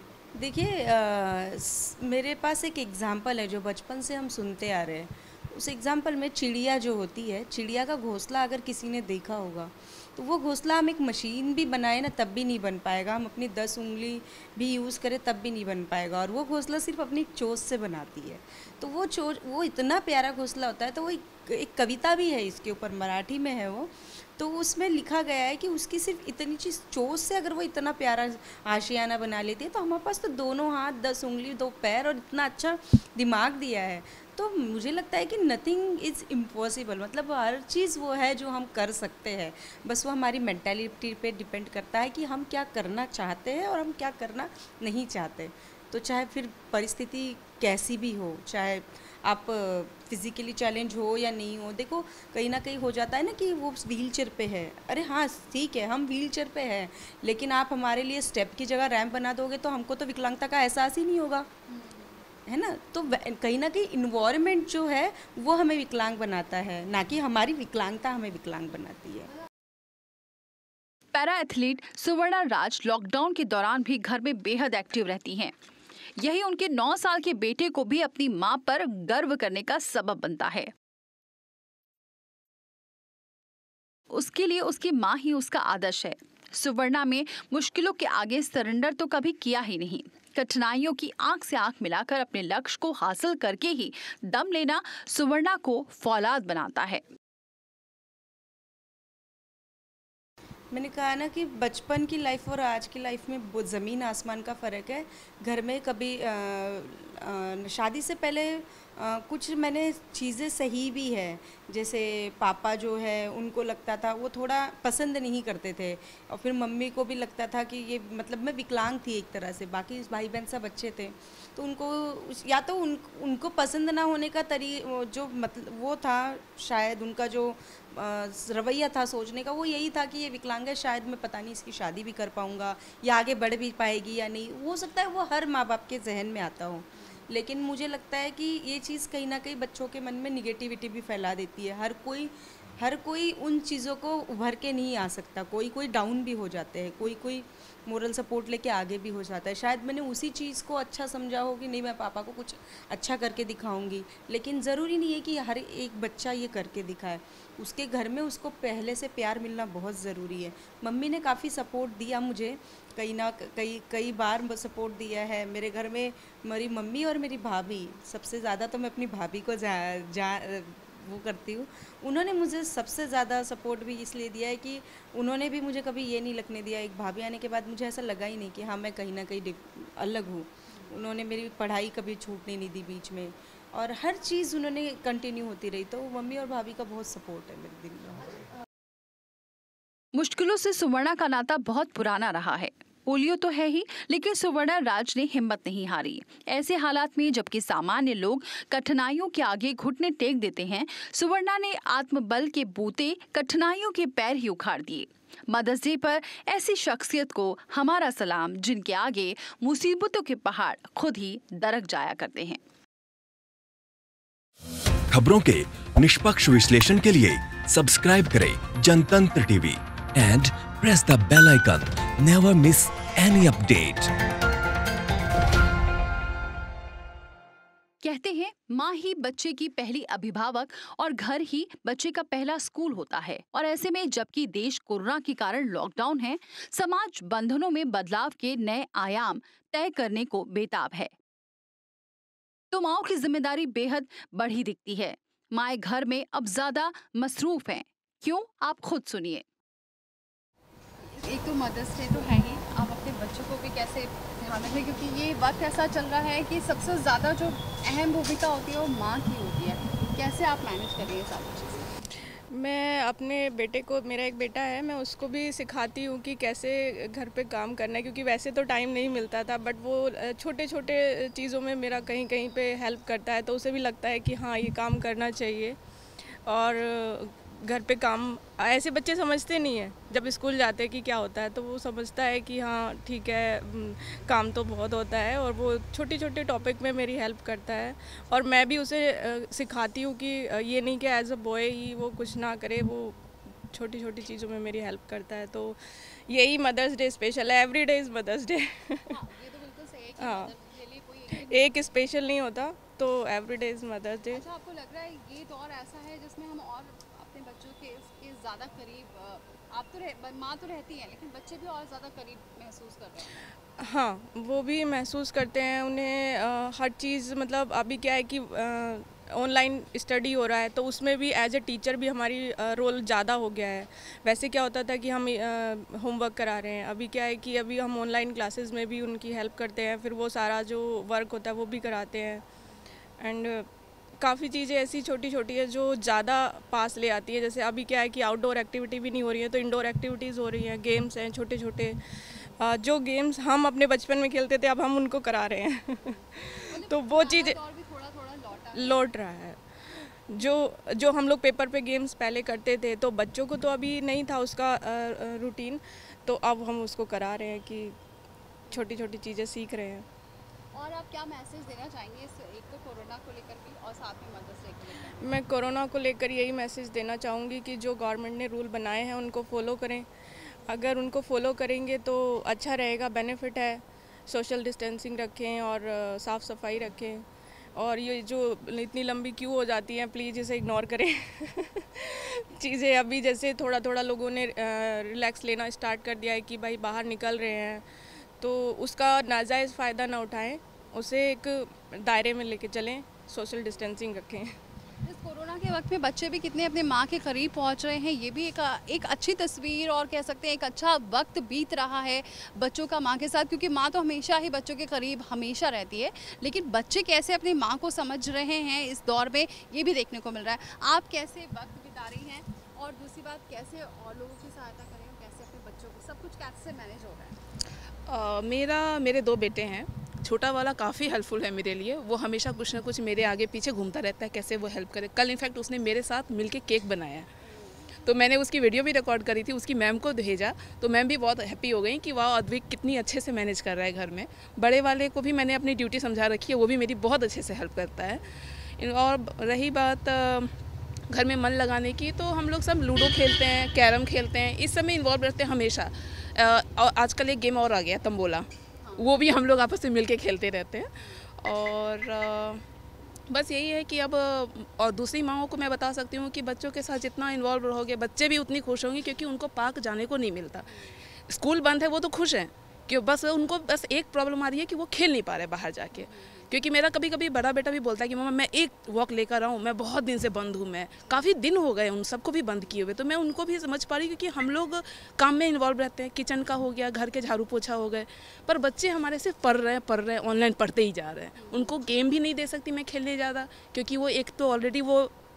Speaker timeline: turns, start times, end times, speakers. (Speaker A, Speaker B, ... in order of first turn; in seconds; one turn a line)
Speaker A: 0.3-61.5
Speaker B: 61.7-62.1
Speaker A: 62.5-69.3
Speaker C: 71.1-75.5
Speaker C: 76.2-80.7
Speaker C: 84.1-97.0
Speaker A: 100.7-188.4
Speaker C: 190.1-212.6
Speaker D: 215.1-224.1
Speaker C: 228.0-241.1
Speaker C: 242.7-249.4
Speaker B: 251.0-261.9
Speaker E: 262.5-275.8
Speaker E: 276.4-293.2
Speaker E: 293.7-299.1
Speaker B: 299.1-301.9
Speaker E: 300.2-300.5
Speaker E: 301.3-304.4
Speaker B: 304.3-313.5
Speaker E: 313.8-332.4
Speaker E: 333.2-333.7
Speaker E: 334.2-347.6
Speaker B: 346.1-349.0
Speaker E: 348.7-357.9
Speaker E: 358.7-360.1
Speaker B: 360.7-365.2
Speaker E: 364.9-370.1
Speaker E: 370.6-387.9
Speaker E: 388.4-394.6
Speaker B: 395.0-417.4
Speaker F: 418.1-427.3
Speaker B: 427.5-427.8
Speaker F: 428.0-440.5
Speaker F: 441.1-452.6
Speaker B: 451.0-451.2
Speaker F: 453.3-485.1
Speaker B: 460.6-461.0
Speaker B: 465.9-466.5
Speaker B: 481.4-481.8